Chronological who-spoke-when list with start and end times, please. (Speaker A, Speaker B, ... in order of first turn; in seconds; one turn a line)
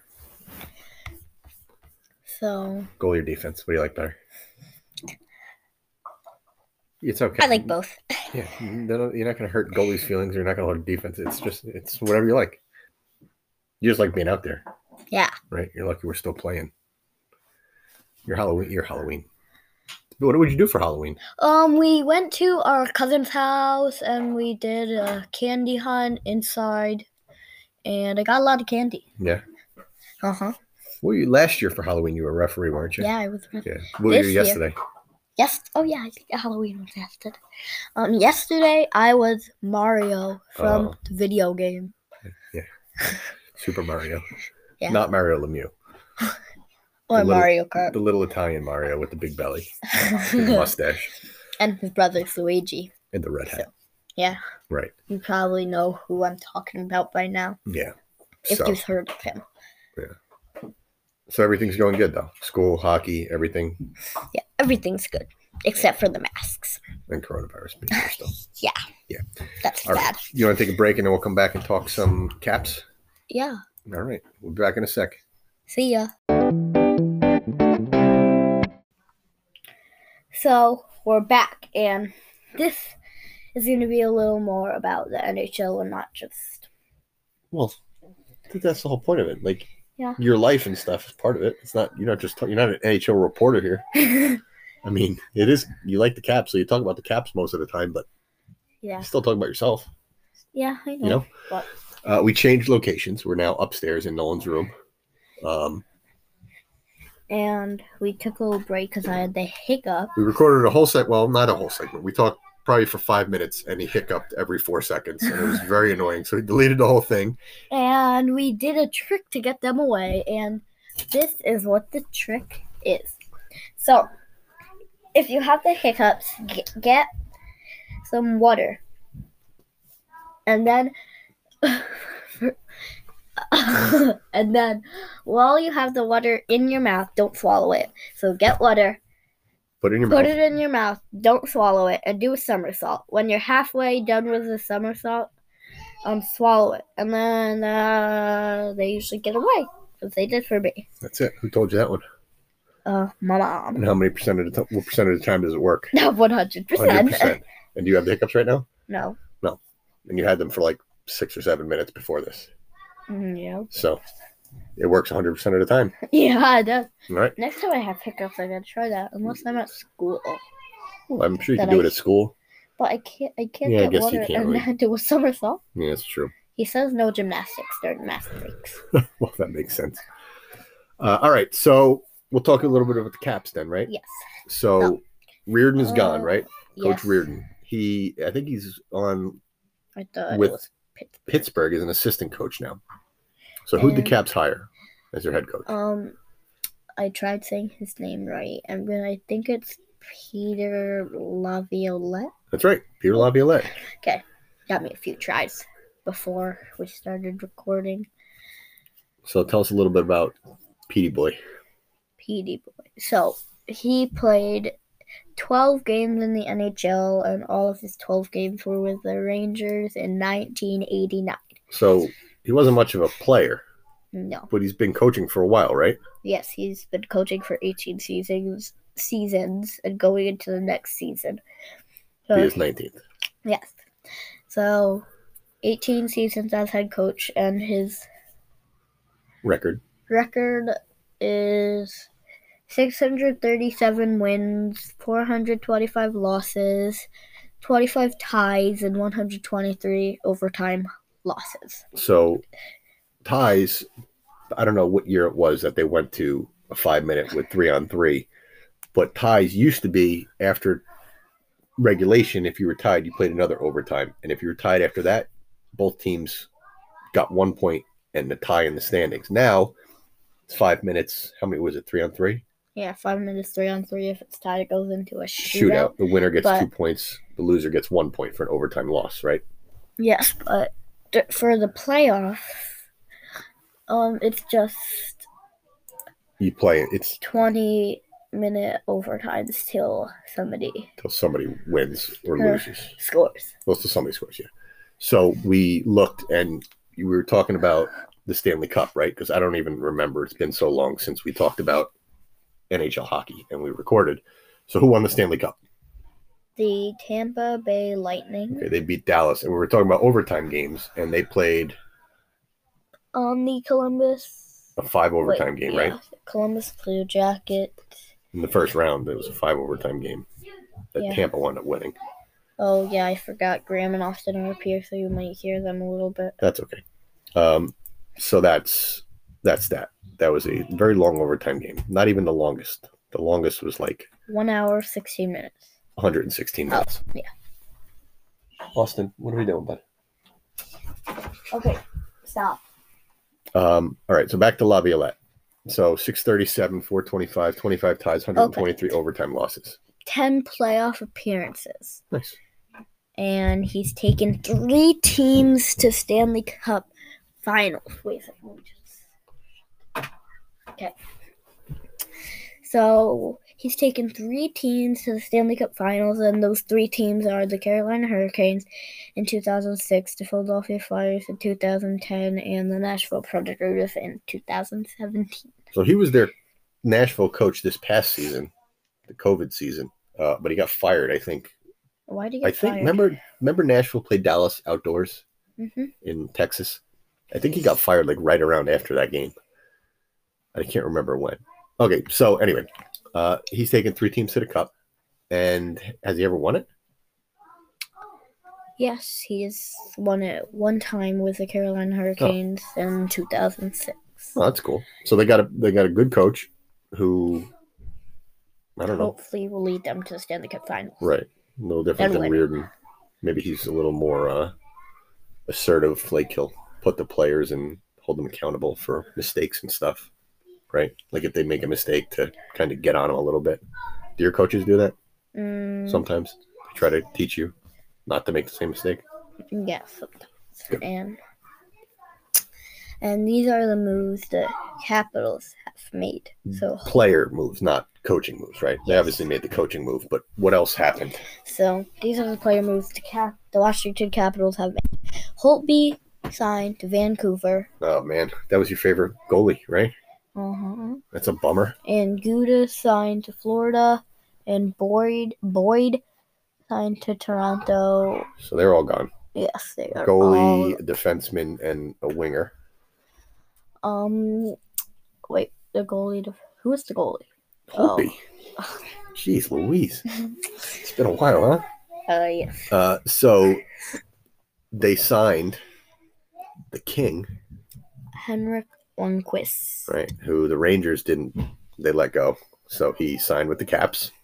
Speaker A: 2.3-2.9
Speaker B: 3.0-4.2
Speaker B: 7.0-7.7
Speaker A: 7.4-8.3
Speaker B: 8.3-12.6
Speaker B: 13.8-14.6
Speaker B: 15.5-16.7
Speaker B: 18.2-19.2
Speaker B: 20.2-21.2
Speaker A: 21.4-27.1
Speaker A: 27.8-29.1
Speaker A: 30.2-30.5
Speaker B: 31.0-33.1
Speaker A: 33.0-34.6
Speaker B: 33.6-34.8
Speaker A: 35.4-37.4
Speaker A: 38.0-41.9
Speaker B: 40.6-41.0
Speaker B: 43.6-44.3
Speaker B: 44.9-45.7
Speaker A: 47.1-48.0
Speaker B: 47.1-51.1
Speaker A: 49.9-50.7
Speaker A: 51.6-52.9
Speaker B: 53.1-53.7
Speaker A: 53.5-54.4
Speaker A: 55.1-57.6
Speaker B: 57.6-57.9
Speaker B: 58.5-58.8
Speaker A: 58.5-59.4
Speaker B: 61.3-63.8
Speaker A: 64.3-66.8
Speaker B: 67.1-68.3
Speaker A: 67.9-68.8
Speaker A: 69.6-70.2
Speaker B: 69.8-72.8
Speaker A: 73.3-73.6
Speaker B: 73.9-75.2
Speaker A: 75.7-76.1
Speaker A: 80.3-83.0
Speaker A: 83.5-86.7
Speaker B: 87.5-87.8
Speaker B: 88.5-93.8
Speaker A: 94.1-94.4
Speaker B: 94.8-98.0
Speaker A: 98.8-99.1
Speaker B: 99.0-99.9
Speaker A: 100.5-101.7
Speaker B: 101.0-101.3
Speaker B: 102.0-104.7
Speaker B: 105.4-105.8
Speaker A: 107.3-110.2
Speaker B: 110.2-117.4
Speaker A: 117.7-123.2
Speaker A: 123.8-124.1
Speaker A: 125.1-127.1
Speaker A: 128.0-128.8
Speaker A: 130.4-130.9
Speaker A: 131.6-132.6
Speaker A: 133.5-139.0
Speaker B: 139.8-140.3
Speaker A: 140.1-145.3
Speaker A: 146.0-150.8
Speaker B: 151.0-152.0
Speaker A: 152.8-153.8
Speaker B: 153.7-155.9
Speaker A: 155.9-157.4
Speaker B: 156.7-158.7
Speaker A: 158.9-159.2
Speaker B: 159.4-162.5
Speaker A: 163.1-163.7
Speaker B: 163.7-164.0
Speaker B: 164.8-165.9
Speaker A: 166.0-170.4
Speaker B: 167.1-167.3
Speaker B: 171.1-172.3
Speaker A: 171.6-171.9
Speaker A: 172.8-175.6
Speaker B: 173.6-174.7
Speaker B: 175.7-176.3
Speaker A: 176.6-178.8
Speaker B: 178.9-180.0
Speaker B: 181.0-183.9
Speaker A: 183.9-184.3
Speaker B: 184.5-189.4
Speaker A: 185.8-187.2
Speaker A: 190.0-191.3
Speaker B: 190.3-190.6
Speaker B: 191.3-192.8
Speaker B: 193.7-195.7
Speaker A: 193.8-194.2
Speaker A: 195.7-196.2
Speaker A: 197.0-202.3
Speaker B: 202.5-203.7
Speaker A: 203.8-208.1
Speaker B: 209.2-210.3
Speaker B: 210.9-211.4
Speaker A: 212.2-214.8
Speaker A: 215.4-221.5
Speaker B: 221.7-223.6
Speaker A: 224.1-224.5
Speaker B: 224.5-226.0
Speaker A: 226.2-231.4
Speaker A: 232.3-232.6
Speaker B: 232.3-233.0
Speaker A: 233.4-233.8
Speaker A: 234.5-235.1
Speaker A: 235.6-238.1
Speaker B: 239.4-239.8
Speaker A: 240.1-242.1
Speaker A: 242.7-247.1
Speaker A: 247.6-251.8
Speaker B: 251.9-252.4
Speaker B: 253.2-253.9
Speaker B: 254.5-258.3
Speaker B: 258.9-260.8
Speaker B: 261.8-266.5
Speaker B: 267.1-269.7
Speaker B: 270.5-272.4
Speaker A: 272.8-276.7
Speaker B: 275.4-279.4
Speaker A: 280.0-282.8
Speaker A: 283.9-285.2
Speaker B: 286.4-287.2
Speaker A: 287.2-290.9
Speaker B: 291.0-292.9
Speaker A: 292.4-293.5
Speaker B: 293.6-301.9
Speaker B: 302.7-305.6
Speaker A: 306.6-308.7
Speaker B: 308.5-311.8
Speaker A: 313.1-314.7
Speaker B: 314.8-316.0
Speaker A: 315.2-317.9
Speaker B: 318.3-320.3
Speaker B: 320.9-321.9
Speaker A: 322.6-326.4
Speaker B: 326.4-326.8
Speaker B: 327.4-334.1
Speaker A: 334.3-335.7
Speaker B: 336.0-337.0
Speaker A: 336.7-337.3
Speaker B: 338.7-339.8
Speaker A: 341.5-342.6
Speaker B: 343.5-349.8
Speaker A: 348.4-348.8
Speaker A: 350.1-352.0
Speaker B: 352.1-352.4
Speaker A: 353.2-356.9
Speaker A: 357.4-359.0
Speaker A: 362.6-368.6
Speaker A: 369.2-375.5
Speaker B: 375.7-376.3
Speaker B: 376.8-378.5
Speaker B: 379.1-381.5
Speaker A: 382.1-383.0
Speaker B: 382.4-385.2
Speaker A: 385.6-385.9
Speaker B: 386.0-389.3
Speaker B: 390.5-394.7
Speaker B: 395.3-396.7
Speaker A: 398.8-404.3
Speaker B: 404.3-407.5
Speaker B: 408.8-409.1
Speaker A: 408.8-411.0
Speaker B: 411.0-412.7
Speaker A: 412.0-412.5
Speaker B: 413.2-414.5
Speaker B: 415.5-420.1
Speaker B: 420.7-423.6
Speaker B: 424.2-424.9
Speaker A: 425.3-426.1
Speaker B: 425.9-427.5
Speaker B: 428.1-429.0
Speaker A: 429.5-431.2
Speaker A: 433.0-436.9
Speaker B: 436.5-441.2
Speaker A: 438.8-439.2
Speaker A: 441.4-447.7
Speaker B: 447.8-449.9
Speaker A: 450.4-451.0
Speaker B: 451.1-451.8
Speaker A: 451.8-456.0
Speaker A: 456.7-458.3
Speaker B: 458.4-459.1
Speaker A: 459.3-460.8
Speaker B: 459.9-462.5
Speaker A: 463.8-464.6
Speaker A: 465.3-468.7
Speaker B: 467.7-468.2
Speaker B: 469.1-470.0
Speaker B: 470.6-471.6
Speaker A: 472.1-472.7
Speaker B: 472.7-473.6
Speaker B: 474.7-475.6
Speaker B: 476.7-477.3
Speaker A: 478.1-479.9
Speaker B: 479.9-484.1